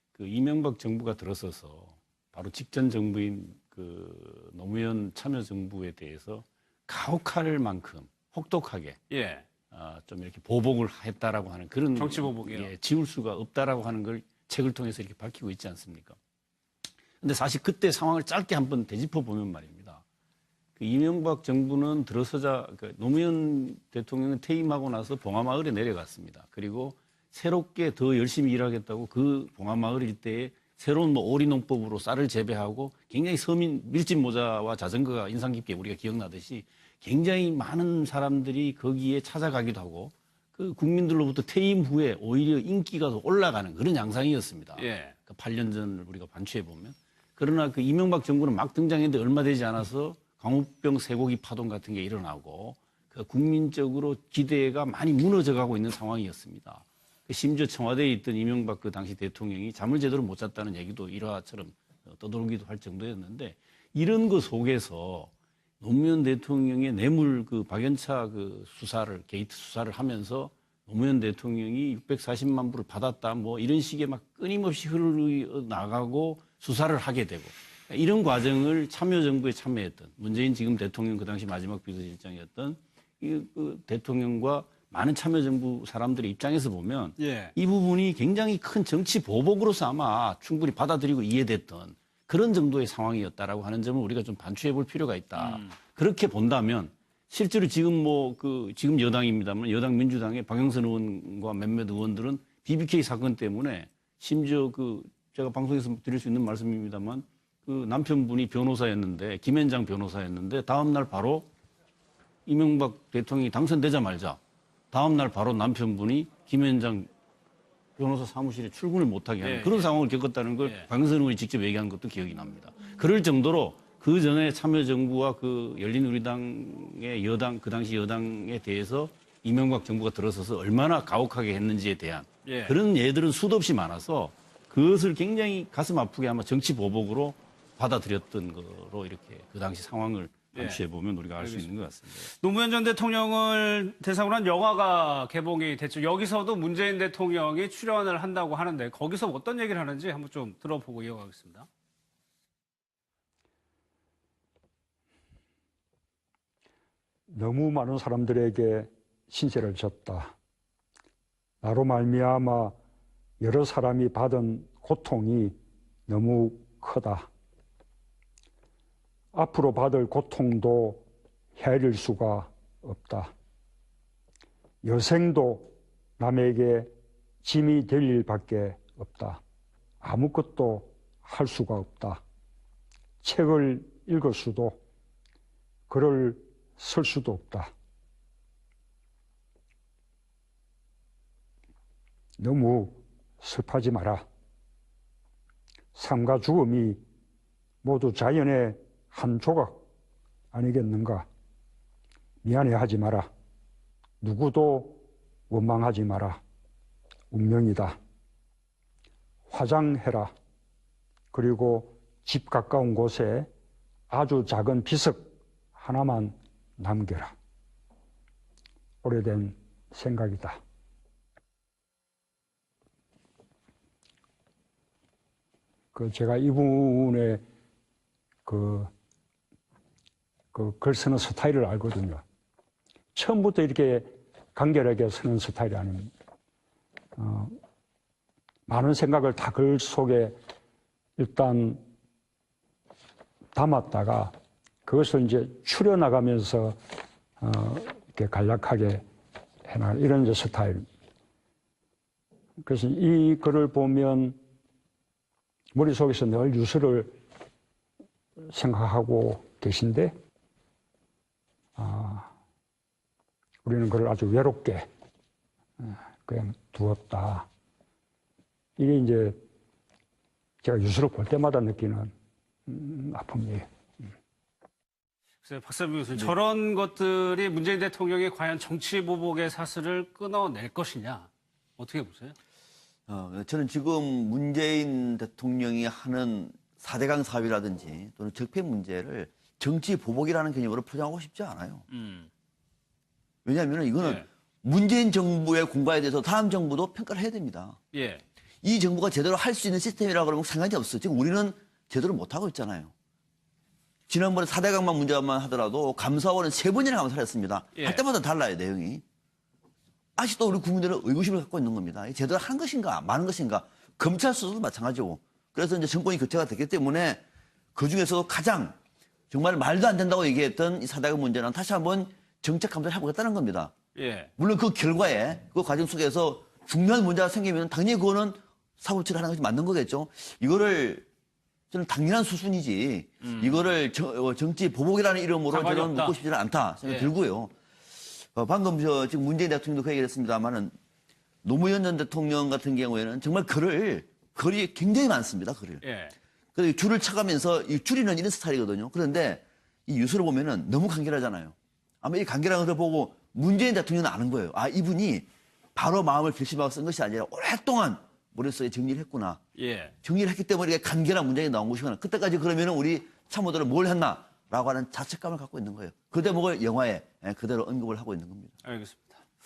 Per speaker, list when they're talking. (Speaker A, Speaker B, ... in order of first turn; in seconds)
Speaker A: 0.1-9.0, 9.7-16.1, 17.2-20.0, 20.8-111.5, 112.5-114.4, 114.9-117.1, 118.0-142.3
Speaker B: 9.1-9.4, 11.9-12.7, 44.8-45.1, 87.2-87.5, 95.4-95.7, 119.4-119.9, 132.4-132.8, 140.5-140.8, 141.4-141.7, 142.3-151.7, 275.4-282.4, 291.9-292.3, 294.0-294.2, 297.9-298.2, 307.8-308.0, 323.9-324.3, 333.2-333.6, 335.5-336.2, 336.8-337.1, 345.8-346.1, 359.6-359.9, 368.6-369.2
Speaker C: 157.3-160.3, 161.6-162.8, 163.4-165.6, 166.1-167.3, 169.3-171.0, 171.6-173.3, 174.8-176.9, 177.4-179.4, 180.0-182.2, 183.2-184.8, 185.9-187.7, 192.4-194.2, 195.9-197.0, 197.8-199.8, 200.5-201.3, 202.4-203.3, 204.2-206.4, 207.3-208.0, 209.5-210.3, 211.3-213.5, 214.1-217.3, 219.0-220.6, 225.9-227.4, 228.4-228.9, 230.5-232.2, 233.1-236.1, 237.2-237.6, 238.7-240.4, 241.2-241.8, 243.5-244.3, 244.8-246.8, 247.4-249.0, 249.7-250.8, 252.6-254.4, 255.7-257.2, 258.5-260.1, 261.8-262.3, 263.6-264.9, 265.8-267.5, 268.8-269.4, 270.6-272.1, 272.7-273.6
Speaker D: 283.1-291.8, 293.4-297.8, 298.6-302.9, 304.1-309.0, 310.1-317.2, 317.8-318.8, 319.3-323.7, 324.4-331.1, 331.7-337.5, 338.2-340.8, 341.4-345.8, 346.5-359.4, 360.0-368.5